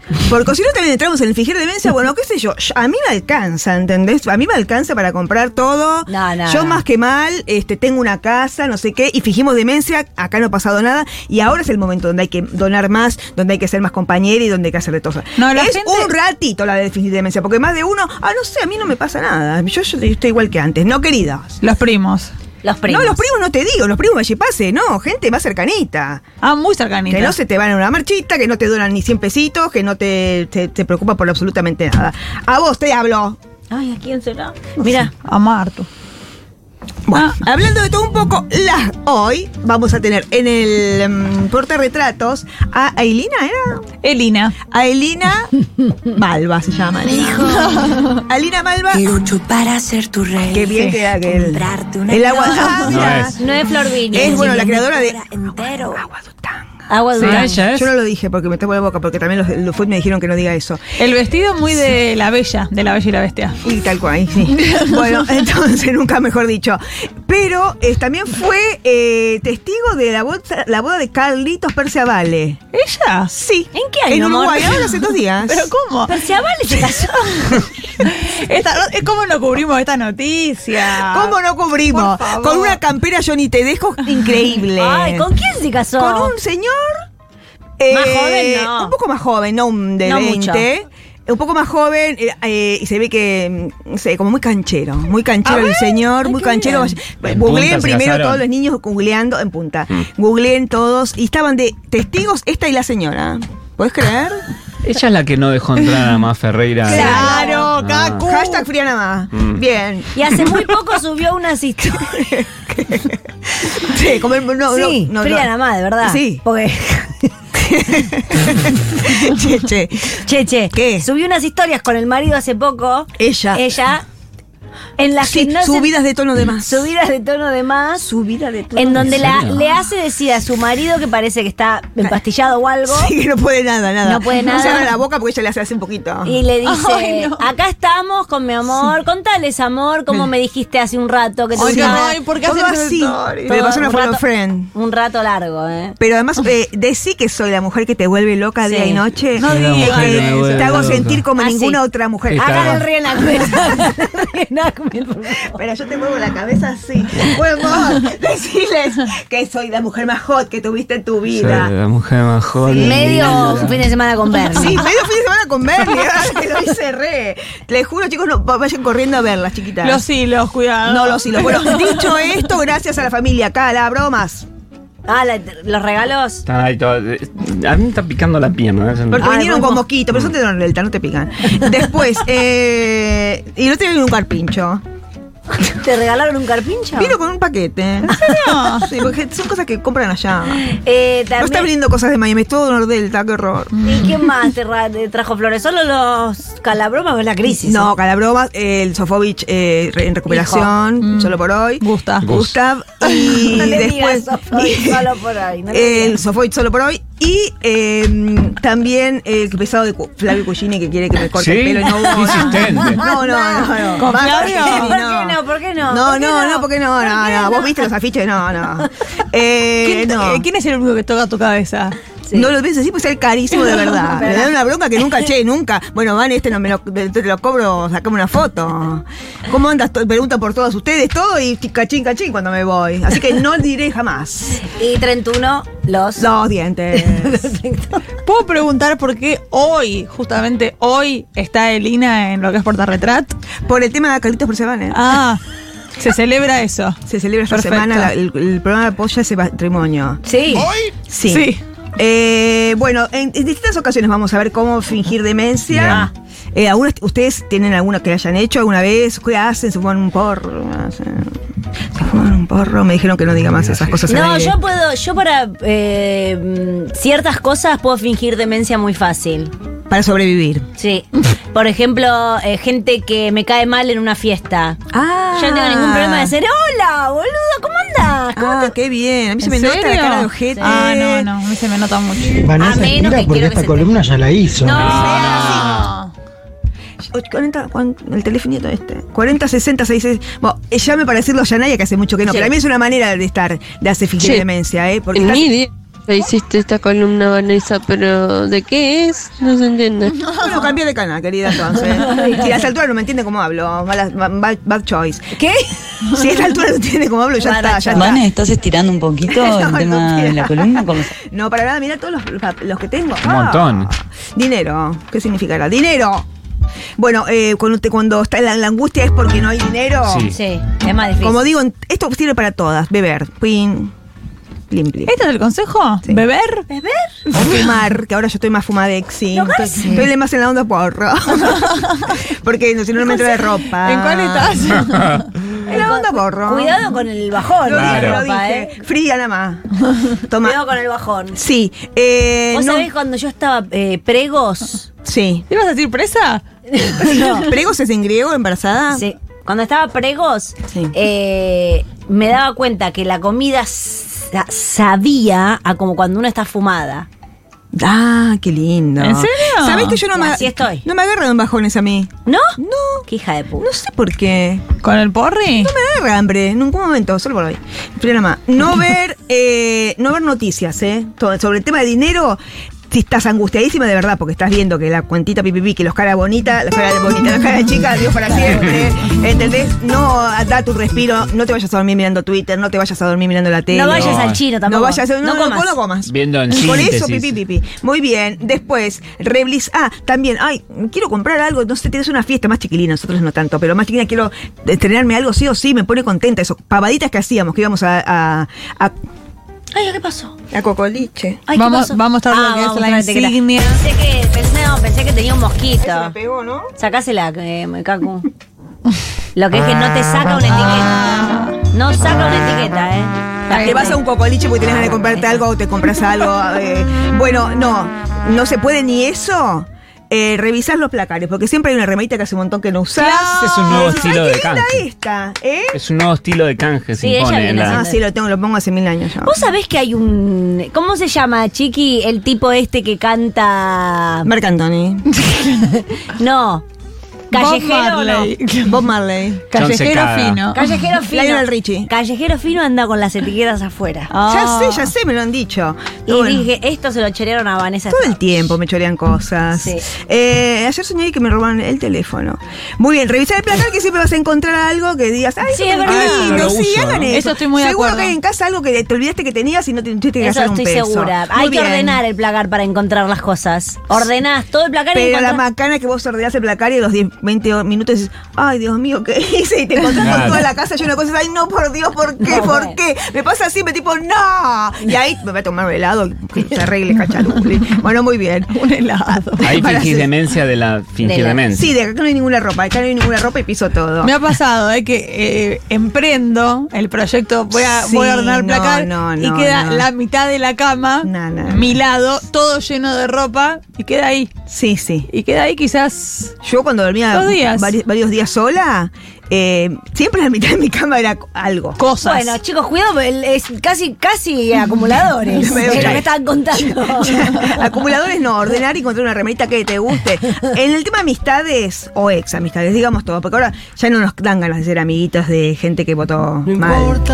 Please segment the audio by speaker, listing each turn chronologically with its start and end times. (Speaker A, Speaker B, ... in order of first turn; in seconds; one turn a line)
Speaker A: 0.2-21.6
Speaker B: 6.1-6.8
Speaker C: 15.4-16.1
Speaker C: 21.6-22.3
Speaker B: 22.6-23.2
Speaker A: 22.9-26.2
Speaker C: 26.4-27.4
Speaker A: 27.1-33.4
Speaker B: 33.7-35.1
Speaker A: 34.8-35.1
Speaker C: 35.2-35.9
Speaker A: 37.1-43.8
Speaker C: 44.0-44.6
Speaker A: 44.7-47.6
Speaker D: 47.2-47.6
Speaker C: 47.5-48.2
Speaker A: 48.3-49.1
Speaker D: 49.3-50.3
Speaker A: 50.5-53.5
Speaker C: 50.7-51.1
Speaker D: 51.5-52.3
Speaker C: 52.5-52.9
Speaker E: 52.9-53.4
Speaker B: 53.3-54.8
Speaker A: 54.1-56.7
Speaker D: 54.2-56.0
Speaker B: 56.9-57.6
Speaker E: 57.2-57.9
Speaker A: 57.2-60.8
Speaker C: 61.0-63.6
Speaker A: 63.6-72.6
Speaker C: 72.7-73.3
Speaker A: 73.3-75.7
Speaker B: 73.7-74.8
Speaker C: 75.4-76.2
Speaker B: 76.1-77.7
Speaker C: 77.4-81.4
Speaker A: 81.0-85.3
Speaker C: 81.9-82.8
Speaker B: 84.8-86.3
Speaker A: 86.0-87.0
Speaker A: 87.8-104.4
Speaker B: 87.9-88.9
Speaker B: 90.0-90.7
Speaker C: 95.5-96.9
Speaker E: 97.2-98.4
Speaker E: 104.8-108.3
Speaker C: 106.9-108.7
Speaker B: 106.9-107.7
Speaker A: 106.9-107.6
Speaker A: 108.2-110.8
Speaker E: 109.3-109.6
Speaker B: 110.2-112.1
Speaker A: 111.9-115.5
Speaker B: 114.7-117.3
Speaker A: 116.0-116.4
Speaker A: 117.5-121.1
Speaker B: 120.2-124.0
Speaker A: 123.2-123.6
Speaker B: 125.0-125.9
Speaker A: 125.2-126.9
Speaker B: 126.6-128.1
Speaker A: 128.0-129.3
Speaker B: 128.7-133.1
Speaker E: 129.0-129.6
Speaker A: 132.9-136.4
Speaker B: 134.0-134.9
Speaker B: 136.2-142.2
Speaker C: 136.6-137.5
Speaker C: 141.6-143.8
Speaker A: 141.6-144.7
Speaker B: 143.5-146.0
Speaker A: 146.0-152.8
Speaker B: 148.6-149.1
Speaker C: 149.4-150.9
Speaker E: 149.4-151.2
Speaker B: 151.4-151.8
Speaker E: 152.3-152.8
Speaker B: 152.4-155.6
Speaker A: 153.4-153.9
Speaker A: 155.5-161.7
Speaker E: 161.3-163.8
Speaker A: 162.6-163.7
Speaker B: 162.8-164.8
Speaker A: 164.5-170.0
Speaker C: 169.8-172.2
Speaker A: 170.8-174.5
Speaker B: 175.1-176.4
Speaker E: 176.5-179.3
Speaker A: 179.1-184.8
Speaker B: 179.2-179.8
Speaker B: 185.7-187.2
Speaker A: 186.9-190.7
Speaker C: 188.2-188.9
Speaker B: 190.6-191.7
Speaker A: 191.4-193.8
Speaker C: 193.7-194.2
Speaker B: 193.8-197.9
Speaker A: 197.5-205.1
Speaker C: 200.4-202.3
Speaker E: 202.2-202.6
Speaker B: 203.5-206.2
Speaker A: 205.7-220.4
Speaker E: 211.3-213.1
Speaker B: 211.8-217.9
Speaker C: 214.0-214.9
Speaker C: 219.8-222.0
Speaker B: 222.2-222.5
Speaker A: 222.3-234.6
Speaker B: 224.0-224.5
Speaker B: 234.7-236.3
Speaker A: 236.2-237.5
Speaker B: 236.9-238.0
Speaker C: 238.2-243.4
Speaker A: 243.7-245.0
Speaker C: 244.9-245.4
Speaker C: 246.0-247.0
Speaker A: 247.1-250.2
Speaker C: 247.5-248.1
Speaker B: 250.2-250.7
Speaker A: 251.1-261.3
Speaker C: 251.3-251.6
Speaker E: 255.7-256.1
Speaker A: 261.9-264.6
Speaker E: 263.4-264.1
Speaker B: 264.1-269.5
Speaker A: 269.9-270.7
Speaker B: 270.8-274.8
Speaker A: 274.9-276.4
Speaker B: 275.4-278.7
Speaker A: 278.4-281.3
Speaker C: 279.4-282.5
Speaker F: 282.4-284.8
Speaker B: 282.5-284.1
Speaker B: 284.6-285.2
Speaker E: 284.6-285.9
Speaker A: 284.7-285.9
Speaker C: 284.7-286.1
Speaker A: 287.1-295.5
Speaker B: 292.3-292.5
Speaker G: 294.2-294.4
Speaker G: 295.2-300.1
Speaker C: 300.2-300.7
Speaker A: 300.4-305.4
Speaker B: 301.9-302.7
Speaker B: 305.4-305.7
Speaker A: 306.0-308.2
Speaker B: 307.4-308.2
Speaker H: 307.9-311.1
Speaker A: 309.3-316.3
Speaker E: 313.2-313.9
Speaker A: 317.0-320.3
Speaker E: 320.1-320.4
Speaker B: 320.3-321.4
Speaker A: 321.2-323.9
Speaker A: 324.7-325.1
Speaker C: 325.1-326.7
Speaker B: 326.7-327.2
Speaker C: 327.3-327.8
Speaker A: 327.3-334.6
Speaker B: 329.4-330.1
Speaker C: 333.0-335.3
Speaker A: 335.7-337.0
Speaker B: 335.7-338.7
Speaker A: 337.6-340.6
Speaker E: 337.7-338.2
Speaker B: 340.4-341.4
Speaker A: 341.4-342.9
Speaker B: 342.5-344.9
Speaker A: 345.1-345.4
Speaker C: 345.5-346.4
Speaker B: 346.7-347.5
Speaker C: 347.0-347.5
Speaker A: 347.0-349.1
Speaker B: 348.9-357.1
Speaker A: 357.7-363.1
Speaker C: 359.0-360.0
Speaker B: 360.1-360.9
Speaker B: 362.3-363.7
Speaker A: 363.6-364.6
Speaker C: 364.8-365.7
Speaker A: 365.5-398.9
Speaker B: 378.3-378.8
Speaker B: 383.7-385.8
Speaker E: 383.9-384.4
Speaker E: 386.1-387.4
Speaker B: 399.7-400.4
Speaker A: 400.5-401.4
Speaker B: 401.5-406.1
Speaker C: 401.6-403.8
Speaker A: 405.8-406.7
Speaker B: 406.8-408.3
Speaker B: 409.4-414.0
Speaker C: 410.5-411.6
Speaker A: 413.5-425.8
Speaker B: 415.0-415.4
Speaker C: 423.0-424.0
Speaker E: 423.4-424.9
Speaker E: 425.7-427.8
Speaker B: 427.0-428.0
Speaker A: 427.7-429.4
Speaker B: 429.2-434.3
Speaker A: 434.2-435.1
Speaker C: 435.2-435.8
Speaker B: 436.1-436.7
Speaker B: 437.3-438.3
Speaker C: 437.3-438.9
Speaker A: 438.7-439.5
Speaker C: 439.5-440.7
Speaker E: 439.5-440.4
Speaker B: 440.5-444.9
Speaker A: 441.1-441.9
Speaker A: 444.2-446.5
Speaker B: 446.1-448.4
Speaker A: 447.9-462.0
Speaker B: 449.6-449.9
Speaker B: 455.4-456.5
Speaker C: 455.9-456.5
Speaker E: 456.3-457.1
Speaker C: 457.1-458.2
Speaker B: 460.2-465.4
Speaker A: 464.9-478.6
Speaker E: 470.0-470.5
Speaker B: 472.2-472.8
Speaker C: 478.5-479.7
Speaker A: 479.4-480.1
Speaker E: 479.4-481.7
Speaker B: 481.0-481.4
Speaker A: 481.5-484.2
Speaker C: 484.0-494.3
Speaker A: 487.6-489.9
Speaker A: 491.0-491.8
Speaker A: 494.5-495.1
Speaker C: 495.1-496.3
Speaker A: 496.4-501.8
Speaker C: 497.1-497.7
Speaker C: 501.8-502.4
Speaker B: 502.0-507.5
Speaker A: 505.2-517.0
Speaker E: 505.7-506.1